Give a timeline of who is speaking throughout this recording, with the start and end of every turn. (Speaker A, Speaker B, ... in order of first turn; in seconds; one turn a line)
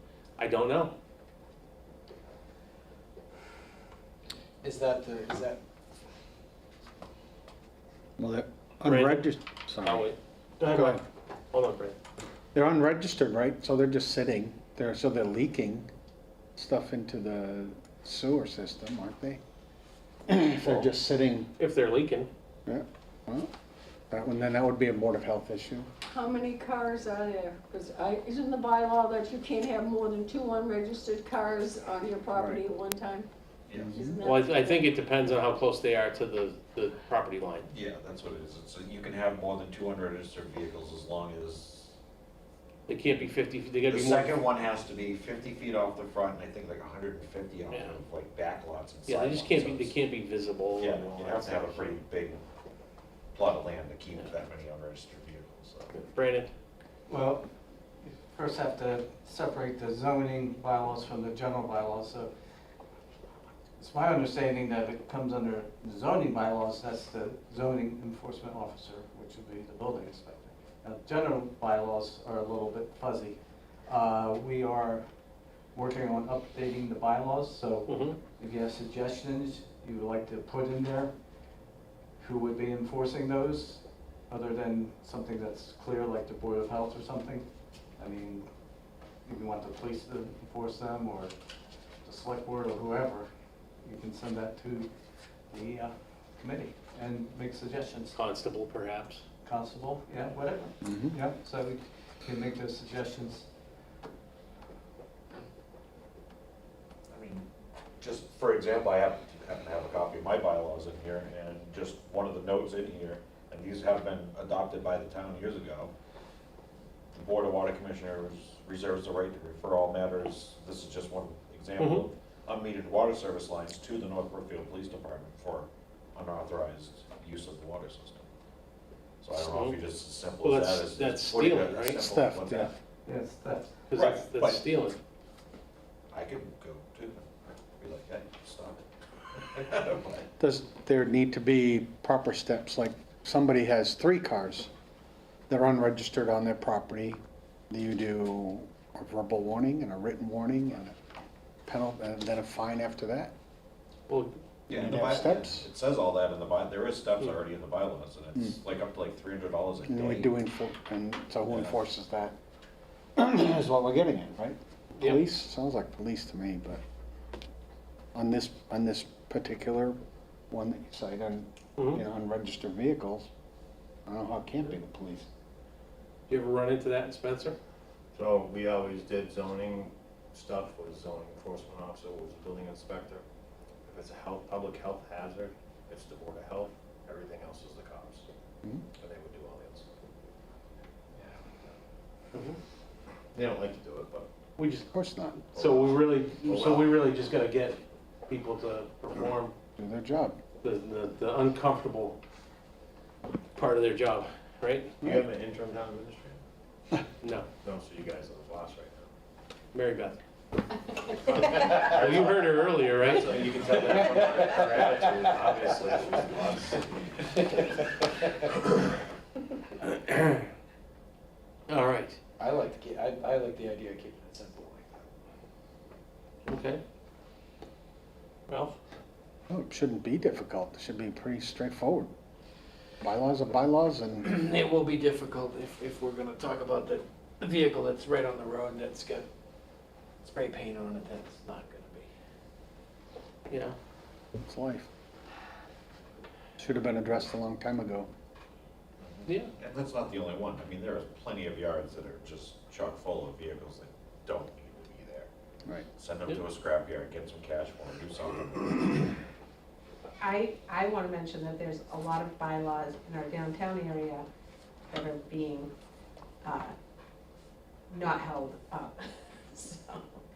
Speaker A: 0.4-0.9
Speaker B: 4.6-5.5
Speaker C: 8.2-10.1
Speaker A: 8.8-12.0
Speaker C: 10.6-11.0
Speaker C: 12.5-15.9
Speaker C: 16.6-19.4
Speaker C: 20.3-21.5
Speaker A: 21.6-22.3
Speaker C: 22.7-23.5
Speaker C: 24.1-25.9
Speaker D: 26.1-33.3
Speaker C: 32.3-32.6
Speaker E: 33.7-34.0
Speaker C: 33.8-34.2
Speaker D: 33.9-34.9
Speaker A: 34.2-37.7
Speaker E: 37.7-42.0
Speaker A: 42.9-44.4
Speaker E: 43.9-50.0
Speaker A: 47.7-48.0
Speaker A: 49.1-51.9
Speaker E: 50.8-52.5
Speaker E: 53.3-56.0
Speaker A: 55.9-56.5
Speaker F: 57.1-57.5
Speaker F: 58.0-62.3
Speaker F: 63.8-75.0
Speaker F: 75.7-81.1
Speaker A: 77.9-78.2
Speaker F: 82.2-87.5
Speaker F: 88.0-88.5
Speaker F: 89.2-91.3
Speaker F: 92.0-93.3
Speaker F: 93.8-94.9
Speaker F: 95.5-98.2
Speaker A: 98.1-99.2
Speaker F: 99.4-103.5
Speaker C: 100.8-101.2
Speaker E: 107.1-107.5
Speaker E: 108.0-115.9
Speaker E: 117.1-128.2
Speaker A: 121.8-122.0
Speaker E: 129.2-132.8
Speaker A: 129.4-129.8
Speaker A: 130.4-132.0
Speaker C: 132.0-132.7
Speaker F: 133.1-133.9
Speaker A: 133.9-135.0
Speaker E: 133.9-134.6
Speaker E: 136.1-137.3
Speaker E: 137.8-138.8
Speaker E: 139.3-140.3
Speaker C: 140.4-144.7
Speaker C: 145.5-147.2
Speaker C: 147.7-151.0
Speaker C: 151.7-153.3
Speaker A: 154.1-154.3
Speaker E: 154.7-160.3
Speaker C: 154.7-155.7
Speaker C: 159.9-162.3
Speaker E: 161.4-161.8
Speaker C: 163.2-166.8
Speaker C: 168.2-170.0
Speaker C: 170.5-173.3
Speaker A: 171.8-172.0
Speaker C: 174.1-175.3
Speaker A: 176.3-177.6
Speaker G: 178.1-183.2
Speaker G: 183.9-188.3
Speaker G: 189.0-189.9
Speaker G: 191.1-191.7
Speaker G: 193.3-194.3
Speaker A: 194.6-194.9
Speaker C: 194.9-195.5
Speaker A: 195.5-199.5
Speaker G: 195.6-197.0
Speaker C: 199.8-200.4
Speaker A: 200.6-202.2
Speaker A: 203.6-204.9
Speaker G: 205.0-206.4
Speaker A: 207.2-207.5
Speaker G: 207.6-209.1
Speaker A: 209.7-210.2
Speaker G: 211.1-217.7
Speaker A: 211.7-214.1
Speaker A: 219.8-220.4
Speaker A: 221.7-222.2
Speaker B: 222.4-224.9
Speaker A: 226.5-226.8
Speaker C: 229.5-232.1
Speaker C: 233.0-234.3
Speaker B: 234.3-239.2
Speaker B: 240.2-242.1
Speaker A: 243.5-243.8
Speaker C: 244.4-244.9
Speaker C: 246.6-248.1
Speaker E: 249.0-255.3
Speaker E: 256.0-259.2
Speaker H: 260.2-264.2
Speaker H: 264.9-265.7
Speaker H: 266.4-266.7
Speaker H: 267.9-270.2